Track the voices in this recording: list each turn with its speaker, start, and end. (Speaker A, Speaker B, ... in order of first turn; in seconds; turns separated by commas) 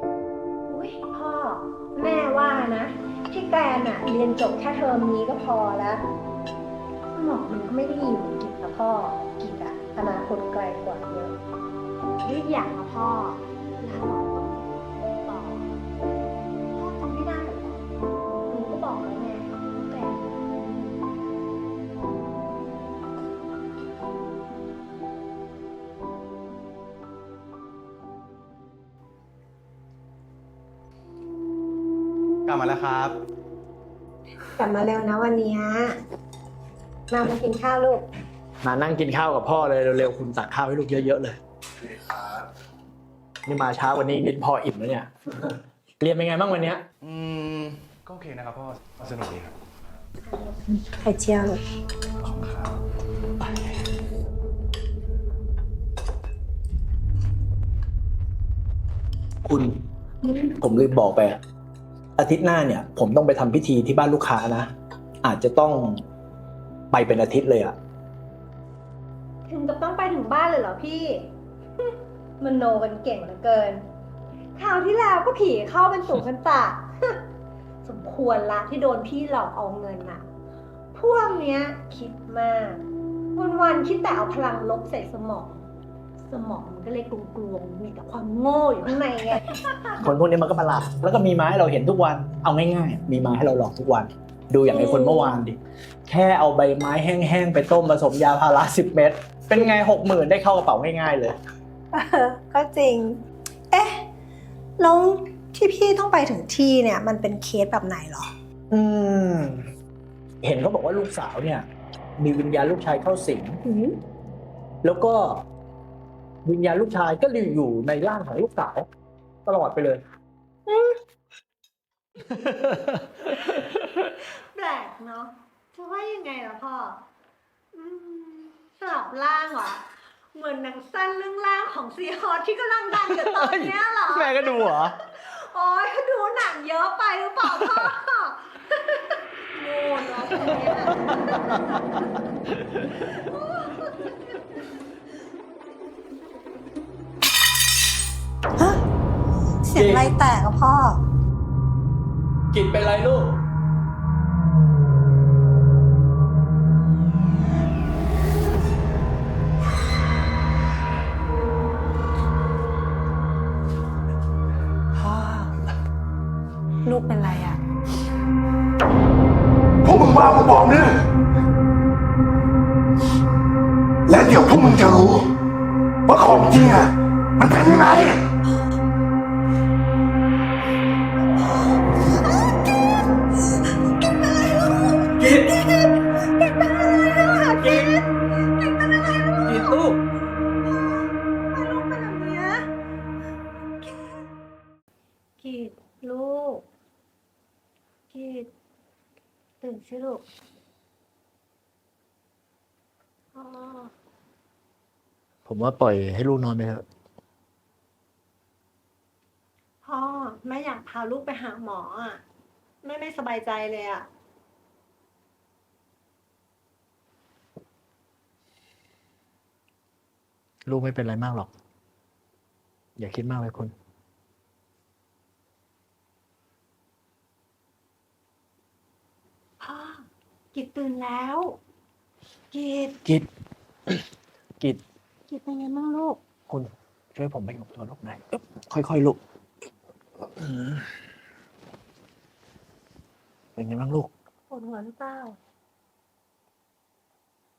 Speaker A: 0.7-6.0, Speaker A: 7.1-11.4, Speaker A: 12.2-15.7, Speaker A: 16.7-17.8, Speaker A: 18.5-20.2, Speaker B: 32.5-33.1, Speaker A: 34.6-36.0, Speaker A: 37.1-38.1, Speaker B: 38.6-41.4, Speaker B: 43.5-46.8, Speaker C: 47.0-49.5, Speaker A: 50.3-51.6, Speaker C: 52.2-52.7, Speaker B: 59.5-59.8, Speaker B: 60.6-61.4, Speaker B: 62.2-64.7, Speaker B: 65.2-66.0, Speaker B: 66.9-67.8, Speaker A: 69.5-71.3, Speaker A: 72.4-73.8, Speaker A: 74.6-77.2, Speaker A: 77.8-80.2, Speaker A: 80.9-85.7, Speaker A: 86.3-90.0, Speaker B: 90.0-101.4, Speaker A: 94.7-95.3, Speaker A: 101.9-104.0, Speaker A: 104.8-108.3, Speaker B: 108.7-109.7, Speaker B: 110.4-111.7, Speaker B: 112.2-113.6, Speaker A: 113.6-114.0, Speaker B: 114.8-115.4, Speaker B: 116.5-118.9, Speaker B: 119.5-120.0, Speaker A: 120.7-120.9, Speaker A: 124.5-127.0, Speaker A: 127.7-142.1, Speaker B: 133.1-135.0, Speaker A: 143.0-144.2, Speaker A: 149.6-151.0, Speaker B: 149.8-150.1, Speaker B: 152.5-153.4, Speaker A: 165.0-165.5, Speaker A: 166.8-167.6, Speaker D: 169.8-171.0, Speaker D: 174.1-175.3, Speaker D: 176.1-178.2, Speaker A: 181.9-182.8, Speaker A: 183.9-189.8, Speaker B: 187.6-187.9, Speaker B: 189.5-190.0, Speaker A: 190.6-192.6, Speaker A: 193.8-194.3, Speaker A: 195.4-196.7, Speaker A: 198.1-198.5, Speaker A: 199.6-200.2, Speaker A: 203.3-203.9, Speaker B: 205.5-206.8, Speaker A: 209.8-212.2, Speaker A: 212.8-214.1, Speaker B: 220.7-221.5, Speaker B: 223.0-223.7, Speaker A: 229.6-231.6, Speaker A: 232.5-233.0, Speaker A: 235.3-236.2, Speaker B: 236.5-239.2, Speaker B: 240.4-240.8, Speaker B: 243.6-244.1, Speaker A: 244.5-245.4